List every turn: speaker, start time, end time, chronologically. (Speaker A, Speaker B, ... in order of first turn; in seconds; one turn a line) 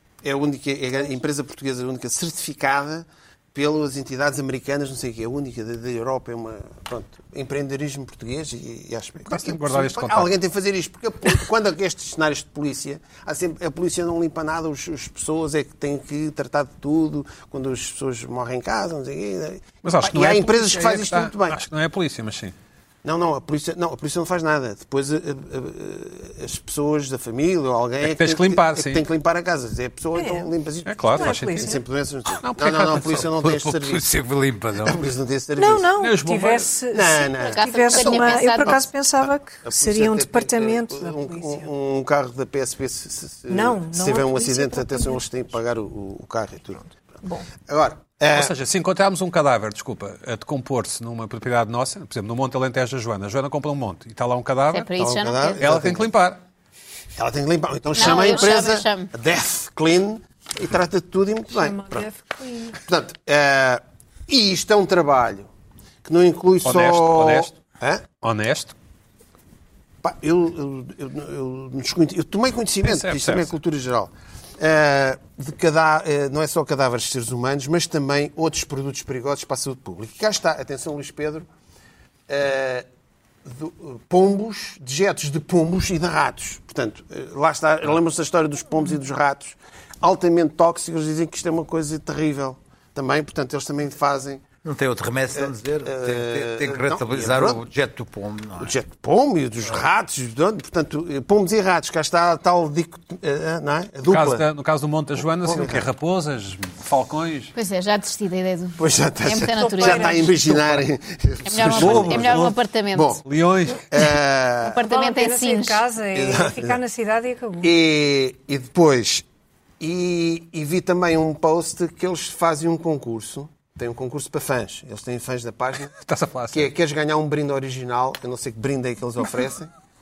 Speaker A: 0.2-21.6
Speaker B: 9.3-10.3
Speaker B: 19.8-22.6
Speaker A: 23.0-34.0
Speaker B: 28.0-29.0
Speaker C: 30.1-30.5
Speaker B: 30.9-31.7
Speaker C: 31.1-31.8
Speaker B: 32.3-35.0
Speaker A: 34.8-35.9
Speaker C: 35.6-41.7
Speaker B: 36.0-36.7
Speaker A: 36.9-38.9
Speaker D: 37.4-38.8
Speaker A: 39.6-46.9
Speaker C: 43.5-45.2
Speaker A: 47.6-48.5
Speaker B: 48.3-54.9
Speaker D: 54.7-55.6
Speaker A: 55.0-56.1
Speaker B: 55.6-56.4
Speaker A: 57.2-62.1
Speaker D: 57.9-59.1
Speaker C: 61.5-62.8
Speaker A: 62.8-65.5
Speaker A: 66.0-68.1
Speaker B: 66.6-67.5
Speaker B: 68.2-68.7
Speaker A: 70.0-81.5
Speaker B: 72.8-73.5
Speaker A: 82.3-82.9
Speaker A: 83.5-94.5
Speaker E: 94.6-98.8
Speaker A: 95.3-97.6
Speaker A: 98.6-104.4
Speaker B: 104.1-107.5
Speaker A: 105.4-105.9
Speaker D: 107.5-110.5
Speaker A: 108.8-113.2
Speaker C: 109.5-110.3
Speaker B: 110.5-110.8
Speaker D: 111.5-113.2
Speaker B: 111.5-112.6
Speaker B: 113.2-113.8
Speaker A: 113.9-114.8
Speaker D: 114.6-115.8
Speaker C: 114.8-117.7
Speaker A: 116.1-116.8
Speaker A: 117.6-119.2
Speaker A: 119.8-125.9
Speaker B: 125.9-126.7
Speaker A: 126.5-129.7